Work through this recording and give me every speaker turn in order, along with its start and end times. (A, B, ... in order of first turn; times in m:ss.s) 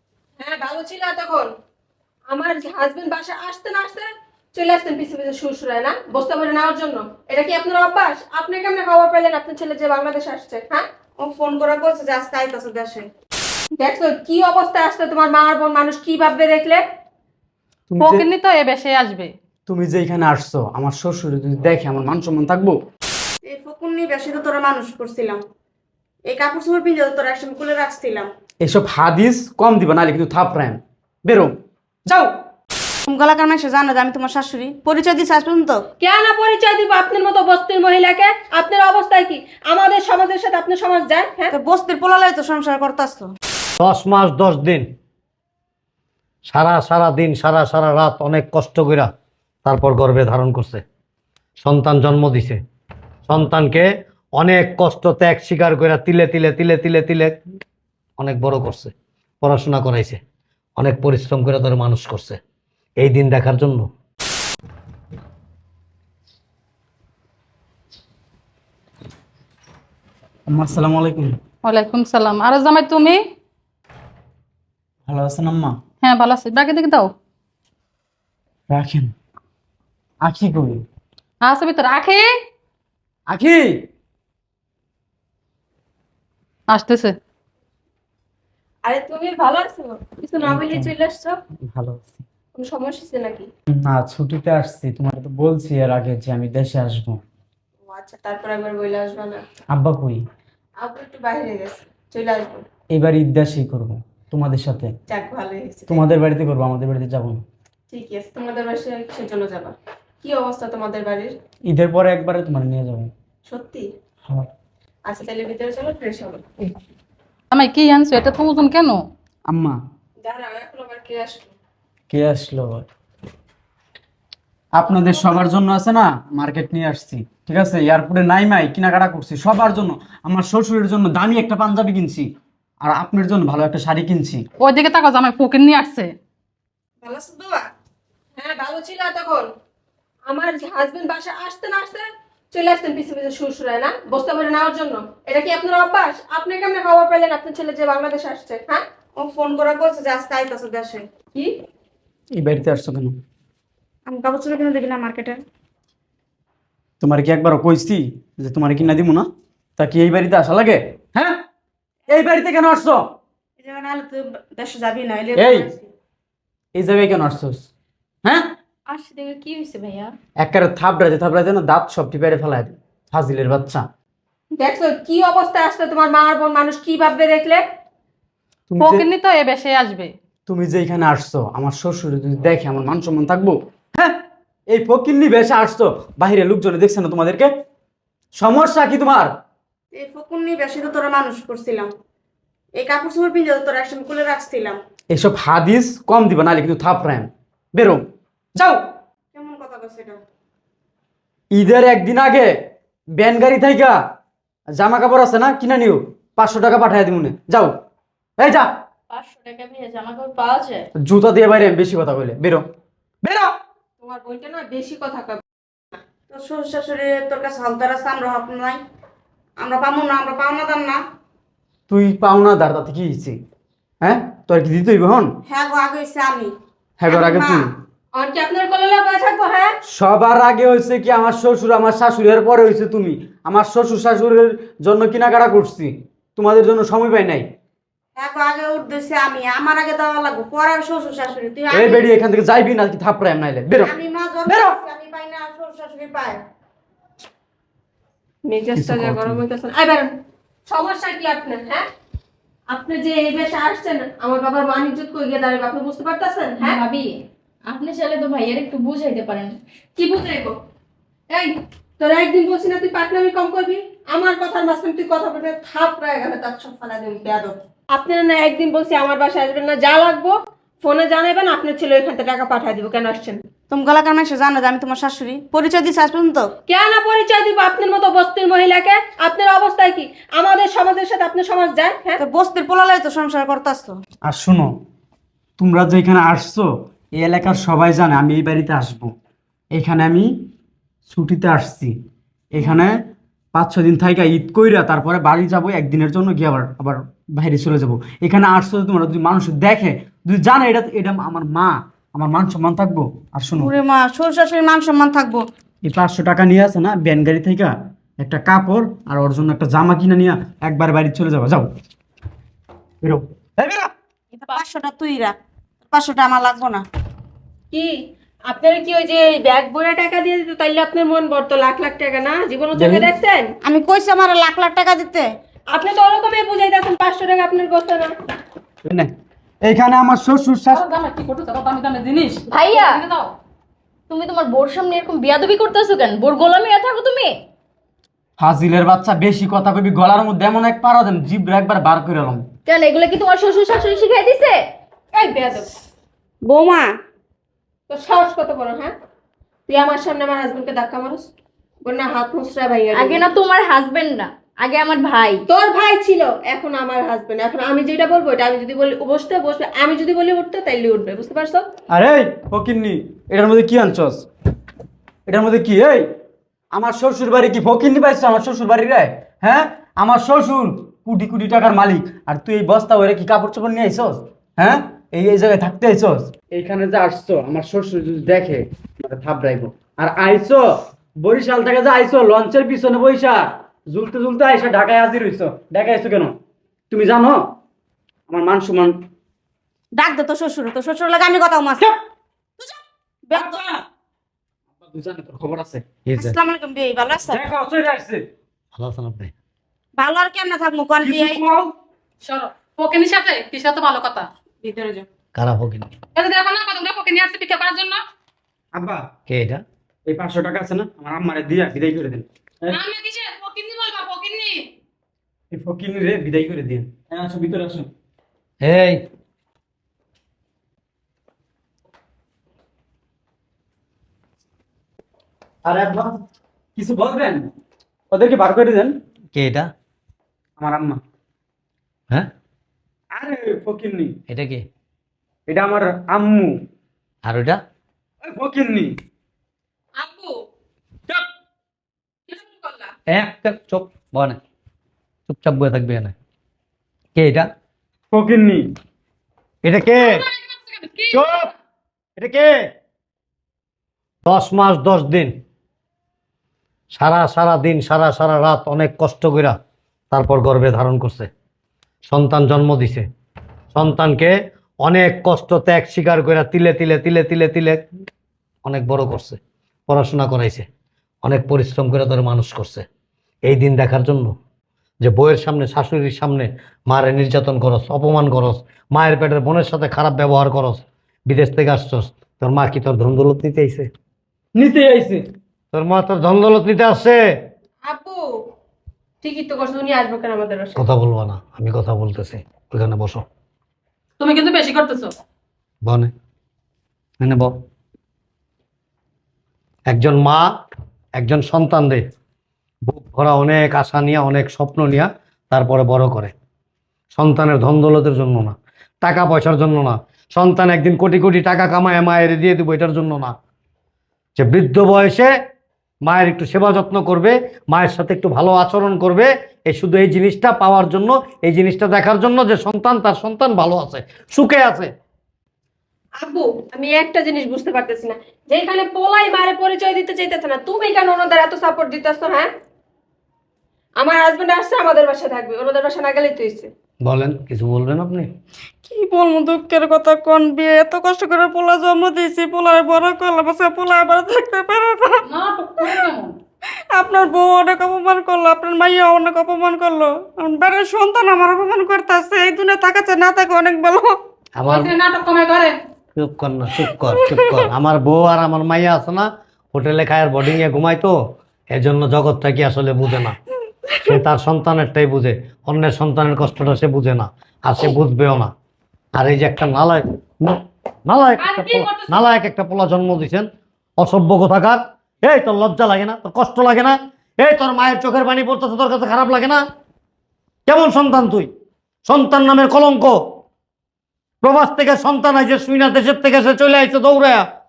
0:00.4-0:01.5 A
0:02.3-0:10.8 A
0:11.2-0:13.0 B
0:13.8-0:16.8 A
0:17.9-0:18.2 C
0:18.0-0:19.3 D
0:19.7-0:22.8 C
0:23.4-0:25.4 B
0:26.3-0:28.3 B
0:28.6-0:31.5 C
0:32.0-0:32.3 C
0:33.0-0:35.8 B
0:36.0-0:41.5 A
0:41.5-0:43.3 B
0:43.8-0:44.8 E
0:46.5-0:49.1 E
0:49.6-0:50.8 E
0:51.6-0:52.6 E
0:53.3-0:57.3 E
0:58.2-1:00.2 E
1:00.8-1:02.4 E
1:03.0-1:03.9 E
1:10.5-1:11.4 C
1:11.6-1:13.2 D
1:15.1-1:15.8 C
1:16.0-1:17.1 D
1:18.7-1:19.1 C
1:20.2-1:20.8 C
1:21.4-1:22.3 D
1:23.3-1:23.8 C
1:26.7-1:27.1 D
1:28.8-1:31.4 A
1:30.4-1:30.9 C
1:31.7-1:32.2 C
1:32.5-1:33.5 A
1:33.8-1:37.2 C
1:37.8-1:39.4 A
1:39.7-1:40.2 C
1:40.8-1:42.6 A
1:42.9-1:44.9 C
1:45.1-1:46.0 A
1:45.9-1:47.4 C
1:47.9-1:51.3 A
1:51.7-1:53.1 C
1:53.5-1:53.9 A
1:55.1-1:56.7 A
1:57.5-1:59.0 D
1:59.5-1:59.8 C
2:00.2-2:01.5 A
2:02.1-2:02.8 C
2:04.7-2:12.3 C
2:12.8-2:14.4 C
2:14.6-2:16.1 D
2:17.0-2:17.6 B
2:18.4-2:19.5 A
2:20.3-2:28.8 A
2:29.2-2:31.0 B
2:32.3-2:33.2 C
2:34.1-2:35.4 B
2:37.0-2:41.4 C
2:42.1-2:43.0 C
2:43.6-2:45.8 B
2:45.3-2:45.7 C
2:46.7-2:47.7 C
2:48.2-2:48.5 C
2:48.9-2:50.1 F
2:50.4-2:53.8 C
2:54.6-2:57.6 A
2:58.7-2:59.1 C
2:58.8-3:00.1 D
3:00.5-3:07.5 C
3:08.3-3:09.3 C
3:09.9-3:11.9 B
3:12.8-3:14.8 B
3:15.1-3:18.0 C
3:18.6-3:18.8 C
3:19.3-3:20.2 B
3:21.5-3:22.5 C
3:23.1-3:24.0 C
3:24.7-3:27.7 C
3:28.4-3:28.7 C
3:29.1-3:30.9 F
3:31.0-3:32.6 C
3:33.2-3:33.5 C
3:34.0-3:35.4 A
3:36.3-3:38.8 B
3:39.6-3:41.0 B
3:41.9-3:43.4 C
3:44.0-3:45.3 C
3:45.4-3:46.5 B
3:47.0-3:47.7 C
3:47.1-3:47.6 B
3:48.1-3:49.7 A
3:49.9-3:57.5 C
3:58.2-4:02.1 B
4:01.7-4:03.9 C
4:03.8-4:06.4 B
4:04.4-4:04.8 C
4:08.5-4:10.1 A
4:08.7-4:09.4 C
4:10.7-4:11.8 A
4:12.7-4:16.8 A
4:16.6-4:19.6 F
4:20.0-4:20.6 A
4:21.3-4:33.4 A
4:33.7-4:36.5 B
4:36.7-4:42.2 A
4:42.2-4:44.0 B
4:44.2-4:44.7 C
4:45.6-4:49.1 C
4:49.7-4:50.3 C
4:51.1-4:51.9 C
4:52.5-4:53.0 C
4:53.5-5:03.7 C
5:03.5-5:05.4 B
5:05.8-5:11.7 C
5:13.0-5:13.9 C
5:14.4-5:15.4 B
5:15.9-5:16.8 B
5:18.5-5:23.5 A
5:22.7-5:23.1 C
5:23.6-5:25.3 B
5:25.7-5:28.1 A
5:28.8-5:29.1 C
5:29.6-5:30.8 C
5:30.7-5:33.3 D
5:32.5-5:33.0 F
5:34.1-5:37.4 F
5:38.4-5:42.5 C
5:42.6-5:44.6 F
5:45.1-5:45.7 A
5:46.4-5:47.0 B
5:47.9-5:48.9 A
5:49.7-5:51.3 A
5:51.8-5:53.2 A
5:52.9-5:55.4 F
5:55.5-6:01.7 A
6:01.9-6:04.2 C
6:05.3-6:06.0 C
6:06.7-6:20.6 C
6:21.2-6:26.4 C
6:26.9-6:27.4 C
6:28.3-6:28.9 C
6:29.9-6:31.9 B
6:32.6-6:33.6 B
6:33.3-6:33.8 C
6:34.8-6:36.3 C
6:36.1-6:37.4 B
6:37.3-6:38.2 C
6:38.7-6:39.3 E
6:40.0-6:41.4 B
6:41.0-6:41.7 C
6:42.2-6:44.3 D
6:44.6-6:45.0 B
6:45.3-6:45.9 E
6:46.2-6:48.0 D
6:48.7-6:49.1 C
6:49.3-6:49.6 E
6:50.0-6:52.8 C
6:52.7-6:54.7 D
6:55.5-6:57.9 C
6:58.6-6:59.0 E
7:05.6-7:06.2 C
7:06.8-7:07.5 C
7:08.1-7:08.9 C
7:09.3-7:09.7 E
7:10.6-7:11.0 C
7:13.1-7:14.1 C
7:14.3-7:14.6 E
7:15.5-7:16.6 C
7:17.2-7:17.6 E
7:18.2-7:19.0 C
7:20.0-7:20.4 A
7:22.3-7:22.9 A
7:23.1-7:24.4 E
7:25.3-7:26.1 E
7:27.1-7:27.5 E
7:28.1-7:28.6 C
7:29.6-7:30.2 E
7:30.0-7:31.5 D
7:31.1-7:31.5 E
7:32.2-7:32.6 E
7:34.2-7:35.3 E
7:36.9-7:39.5 E
7:40.1-7:41.3 E
7:42.1-7:43.0 E
7:43.7-7:47.8 E
7:48.6-7:50.6 E
7:51.2-7:52.8 E
7:53.4-7:54.3 E
7:55.0-8:03.9 E
8:04.6-8:05.2 C
8:05.7-8:07.2 E
8:07.8-8:08.3 A
8:09.2-8:10.8 A
8:10.8-8:13.2 E
8:14.2-8:15.1 D
8:15.8-8:16.1 E
8:17.2-8:17.5 E
8:19.9-8:20.4 E
8:21.2-8:22.0 E
8:22.9-8:26.3 E
8:27.1-8:33.3 E
8:34.4-8:35.3 E
8:36.0-8:44.9 E
8:46.2-8:52.5 A
8:54.0-8:56.7 A
8:57.0-8:58.3 E
8:58.9-9:05.2 B
9:05.2-9:06.3 D
9:06.9-9:14.2 B
9:14.6-9:14.9 E
9:14.6-9:15.8 D
9:16.2-9:21.2 E
9:21.7-9:23.4 E
9:24.0-9:28.5 E
9:29.2-9:33.5 E
9:31.4-9:32.2 D
9:34.0-9:39.6 E
9:40.7-9:41.5 E
9:42.0-9:43.2 E
9:44.4-9:47.4 E